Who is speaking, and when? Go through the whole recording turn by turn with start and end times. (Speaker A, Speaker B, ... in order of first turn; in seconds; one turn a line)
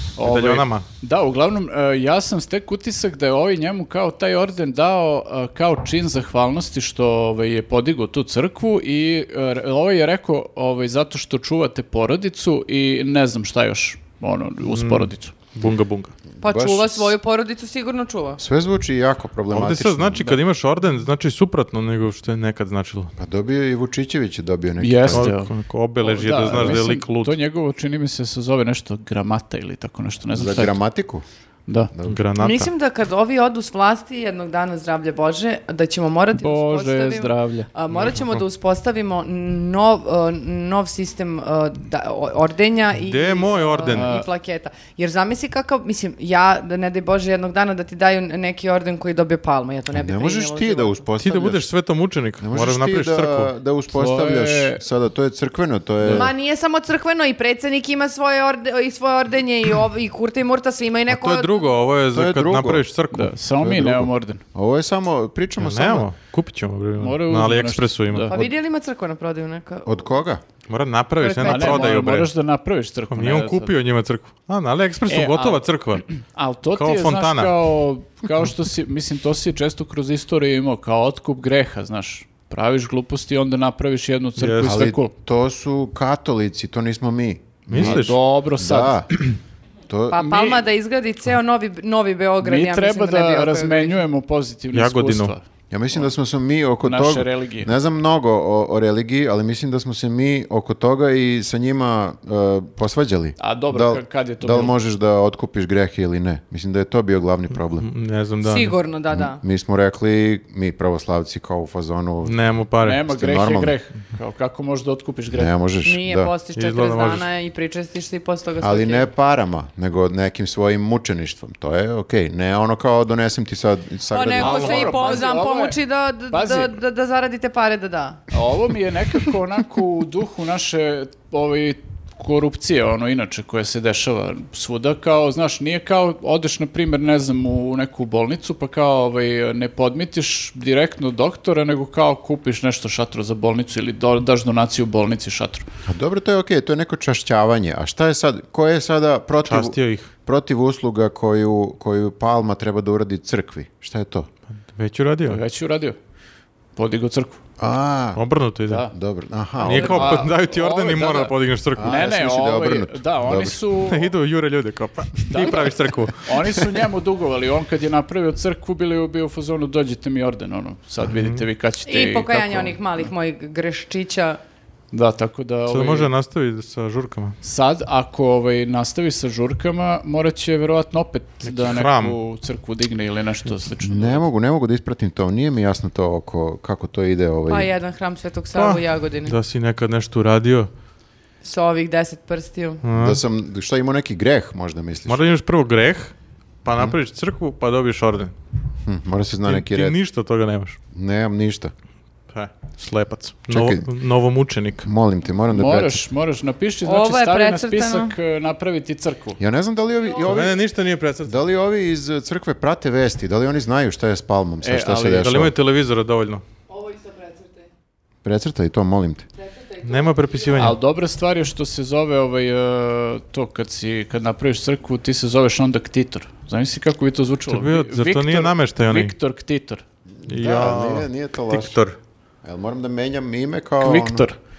Speaker A: 0.1-15.3
Speaker B: 0.2-0.8
Speaker B: 14.7-16.1
Speaker C: 16.4-17.1
Speaker D: 16.4-18.4
Speaker C: 18.4-20.4
Speaker B: 19.5-23.1
Speaker C: 23.2-25.3
Speaker A: 24.8-30.8
Speaker B: 25.1-27.4
Speaker C: 30.3-31.2
Speaker A: 31.7-31.9
Speaker B: 32.0-32.7
Speaker D: 32.4-51.1
Speaker A: 36.4-37.7
Speaker B: 37.9-38.4
Speaker B: 43.0-44.1
Speaker A: 43.9-44.3
Speaker C: 49.9-51.6
Speaker B: 51.2-53.5
Speaker C: 52.4-56.3
Speaker A: 53.9-54.8
Speaker A: 56.0-56.3
Speaker D: 56.1-61.6
Speaker B: 61.1-63.3
Speaker C: 62.1-62.8
Speaker A: 63.1-64.4
Speaker C: 63.6-66.1
Speaker B: 65.6-68.3
Speaker A: 67.0-68.3
Speaker D: 68.3-70.1
Speaker C: 69.8-70.4
Speaker B: 70.7-72.3
Speaker D: 71.2-72.0
Speaker A: 71.4-73.7
Speaker B: 73.1-76.0
Speaker A: 75.1-85.1
Speaker B: 76.7-77.5
Speaker B: 84.4-84.8
Speaker C: 84.6-89.1
Speaker B: 87.7-88.2
Speaker A: 87.7-89.0
Speaker C: 89.9-90.6
Speaker D: 90.1-94.0
Speaker A: 92.4-95.4
Speaker B: 94.7-95.3
Speaker C: 95.7-107.9
Speaker A: 96.8-97.7
Speaker A: 103.4-104.8
Speaker B: 107.8-108.8
Speaker D: 108.4-109.4
Speaker C: 109.1-112.4
Speaker B: 112.2-113.0
Speaker A: 112.8-115.5
Speaker C: 113.1-113.7
Speaker C: 115.3-116.3
Speaker D: 115.8-119.1
Speaker B: 116.5-117.2
Speaker C: 118.6-125.1
Speaker D: 124.1-128.3
Speaker A: 124.4-125.8
Speaker A: 126.3-126.7
Speaker A: 128.3-145.7
Speaker C: 145.8-154.3
Speaker B: 149.4-150.1
Speaker B: 154.6-155.4
Speaker A: 155.2-156.0
Speaker A: 156.8-157.4
Speaker C: 157.6-158.2
Speaker B: 158.2-158.9
Speaker A: 158.7-158.9
Speaker C: 158.9-160.2
Speaker A: 159.6-164.1
Speaker B: 159.6-162.1
Speaker C: 161.8-163.6
Speaker B: 163.8-166.3
Speaker A: 165.3-172.8
Speaker B: 171.1-171.4
Speaker D: 171.8-174.4
Speaker A: 174.9-176.1
Speaker B: 175.7-177.3
Speaker A: 177.4-184.2
Speaker B: 181.4-182.2
Speaker C: 183.8-187.7
Speaker D: 187.5-189.3
Speaker B: 188.5-190.7
Speaker D: 191.4-192.8
Speaker B: 192.8-193.2
Speaker C: 192.9-195.2
Speaker B: 195.1-198.3
Speaker C: 198.8-199.9
Speaker B: 199.5-200.8
Speaker C: 200.9-201.7
Speaker B: 202.3-204.9
Speaker C: 203.5-203.8
Speaker C: 204.8-206.0
Speaker A: 205.5-209.4
Speaker D: 206.8-208.1
Speaker C: 209.4-210.6
Speaker B: 210.2-211.4
Speaker C: 211.2-215.5
Speaker A: 214.6-215.3
Speaker B: 215.1-216.4
Speaker D: 216.7-217.6
Speaker C: 218.2-219.2
Speaker D: 219.5-220.0
Speaker B: 219.8-220.8
Speaker A: 220.5-229.8
Speaker B: 227.5-229.1
Speaker C: 230.2-231.8
Speaker B: 230.3-231.9
Speaker C: 232.4-234.3
Speaker A: 233.8-234.3